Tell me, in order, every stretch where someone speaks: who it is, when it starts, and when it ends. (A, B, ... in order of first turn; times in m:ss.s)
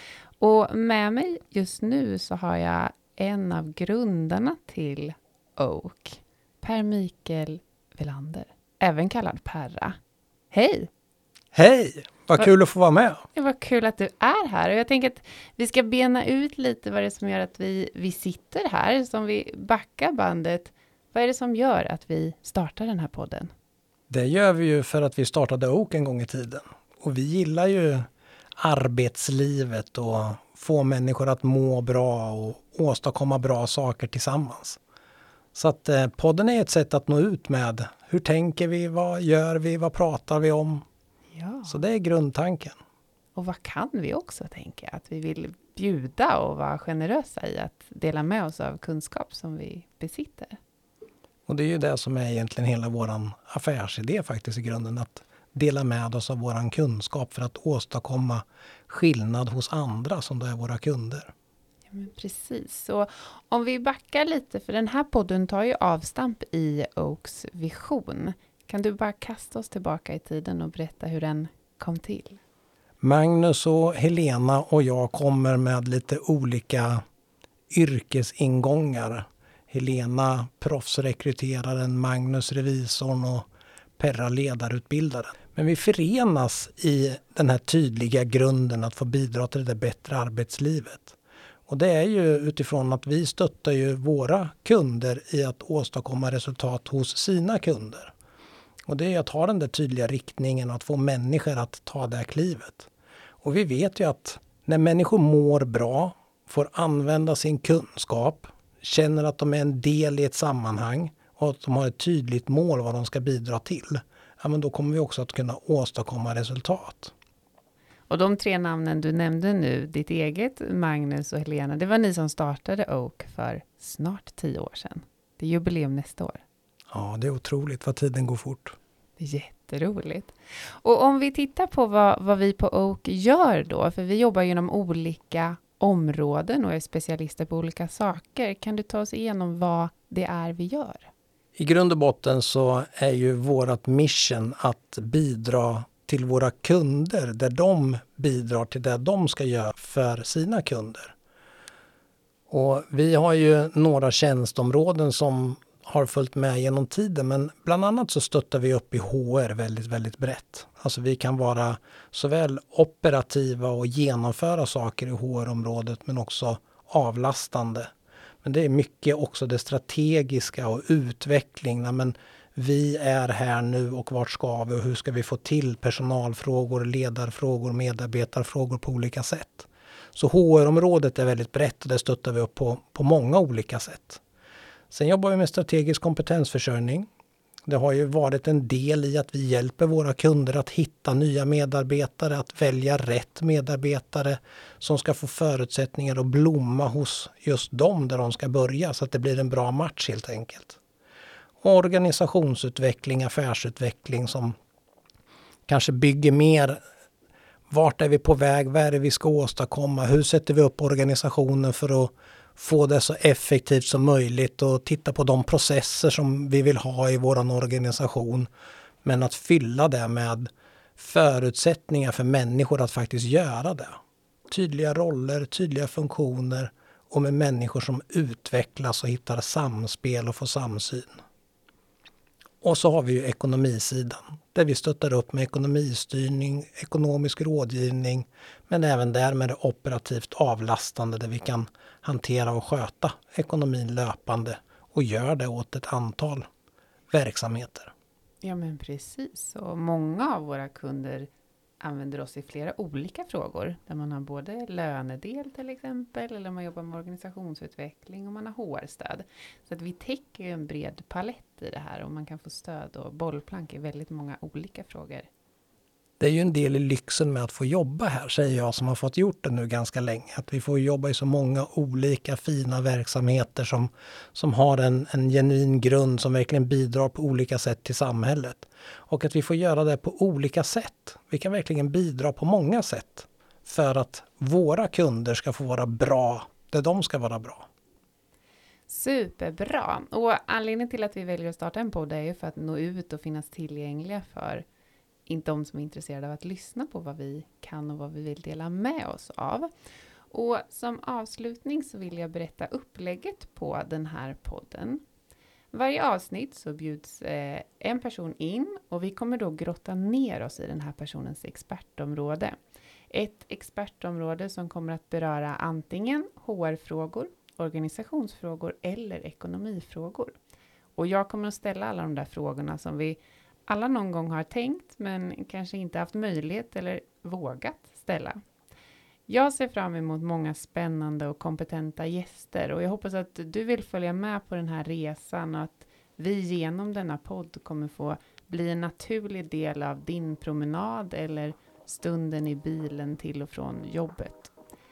0:00.4-0:10.0 A
0:10.5-0:10.9 A
0:11.5-0:13.2 B
0:13.3-0:23.5 A
0:24.1-0:28.1 B
0:28.6-0:34.8 B
0:35.5-0:40.8 B
0:41.3-0:41.8 A
0:41.6-0:42.7 B
0:43.3-0:50.6 A
0:51.5-1:01.3 B
1:01.9-1:12.4 A
1:13.0-1:17.0 B
1:17.7-1:23.4 B
1:24.0-1:31.2 B
1:31.7-1:38.1 B
1:38.9-1:42.9 B
1:43.4-1:57.1 B
1:58.1-2:06.4 A
2:06.9-2:08.8 B
2:09.2-2:21.1 A
2:21.6-2:31.1 B
2:32.5-2:47.9 B
2:48.4-3:04.2 B
3:04.9-3:07.1 B
3:07.7-3:20.8 B
3:21.6-3:24.5 B
3:25.7-3:26.8 B
3:27.7-3:38.5 B
3:39.0-3:51.2 B
3:52.6-4:06.5 B
4:07.1-4:07.9 B
4:08.4-4:11.3 A
4:11.8-4:25.3 A
4:26.2-4:47.7 B
4:48.9-4:54.6 A
4:55.3-4:59.7 A
5:00.3-5:05.0 A
5:05.7-5:12.6 A
5:13.1-5:20.4 A
5:21.0-5:28.4 A
5:29.3-5:44.5 A